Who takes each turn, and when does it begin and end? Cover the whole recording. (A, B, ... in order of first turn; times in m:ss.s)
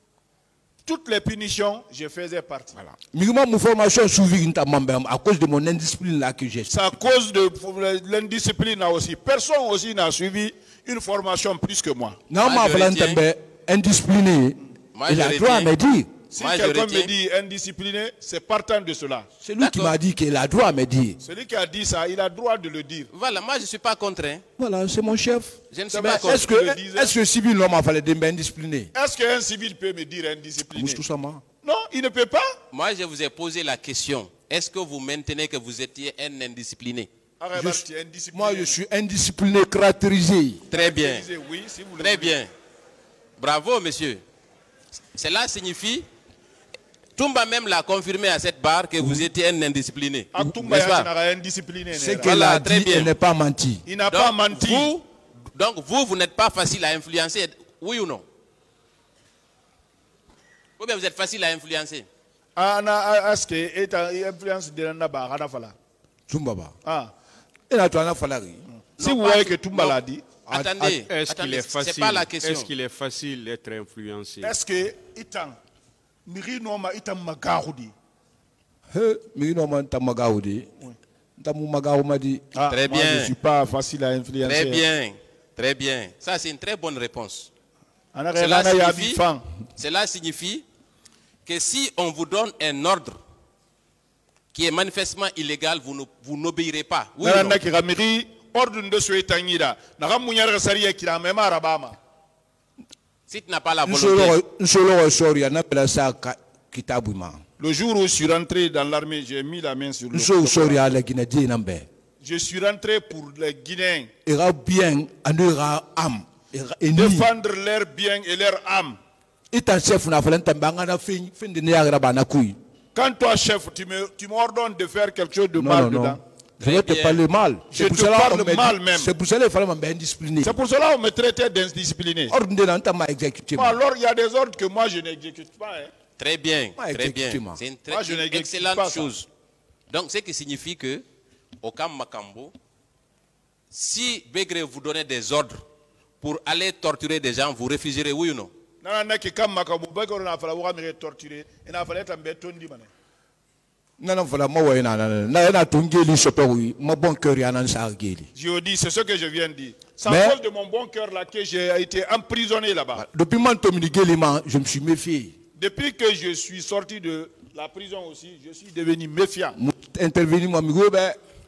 0:00.8-0:02.7 A
0:02.8-0:06.7 B
0:06.7-0:12.2 A
0:12.3-0:16.1 B
0:12.4-0:13.2 C
0:14.9-0:15.7 C
0:16.3-0:19.3 A
0:16.4-0:17.1 C
0:19.4-0:21.2 B
0:19.6-0:19.9 C
0:21.2-0:23.1 A
0:23.1-0:24.4 C
0:24.6-0:28.9 B
0:25.7-0:26.4 C
0:25.9-0:27.1 A
0:28.9-0:31.0 A
0:30.7-0:31.4 B
0:31.6-0:32.6 A
0:32.7-0:37.1 C
0:37.4-0:38.8 A
0:37.5-0:40.7 B
0:40.7-0:42.4 A
0:40.7-0:41.2 C
0:42.0-0:42.5 C
0:43.4-0:44.2 C
0:45.1-0:46.1 C
0:47.2-0:51.1 C
0:50.3-0:52.3 A
0:51.9-0:53.8 B
0:52.2-0:53.1 C
0:53.8-0:54.9 A
0:54.1-0:58.2 C
1:00.8-1:02.1 C
1:02.6-1:05.7 A
1:06.3-1:06.7 B
1:06.8-1:07.1 A
1:07.7-1:08.6 B
1:09.0-1:10.2 A
1:09.0-1:10.0 C
1:10.4-1:11.0 B
1:10.5-1:12.7 C
1:11.0-1:14.5 D
1:14.4-1:15.6 A
1:16.2-1:17.9 A
1:18.9-1:20.7 B
1:21.4-1:22.4 B
1:22.5-1:24.8 A
1:22.7-1:23.3 C
1:24.4-1:27.5 C
1:28.1-1:29.4 A
1:28.4-1:29.2 C
1:29.8-1:30.6 C
1:31.4-1:33.2 C
1:34.5-1:37.6 C
1:37.2-1:42.0 A
1:43.3-1:44.4 C
1:43.8-1:47.4 B
1:47.6-1:50.8 A
1:50.1-1:51.9 B
1:52.2-1:54.1 A
1:54.2-1:57.3 B
1:56.9-1:59.0 A
1:59.5-2:02.6 B
2:02.9-2:06.2 A
2:05.5-2:10.6 B
2:06.6-2:07.2 C
2:07.7-2:09.1 A
2:10.4-2:12.3 A
2:12.3-2:13.8 B
2:13.6-2:15.9 A
2:16.2-2:19.3 C
2:16.8-2:17.6 B
2:17.9-2:19.1 A
2:19.9-2:21.0 C
2:21.6-2:22.5 C
2:23.7-2:25.6 C
2:26.2-2:28.5 C
2:28.8-2:32.9 A
2:34.0-2:38.3 B
2:38.3-2:43.0 A
2:40.0-2:40.4 B
2:43.0-2:45.3 B
2:45.6-2:49.6 A
2:49.6-2:51.2 B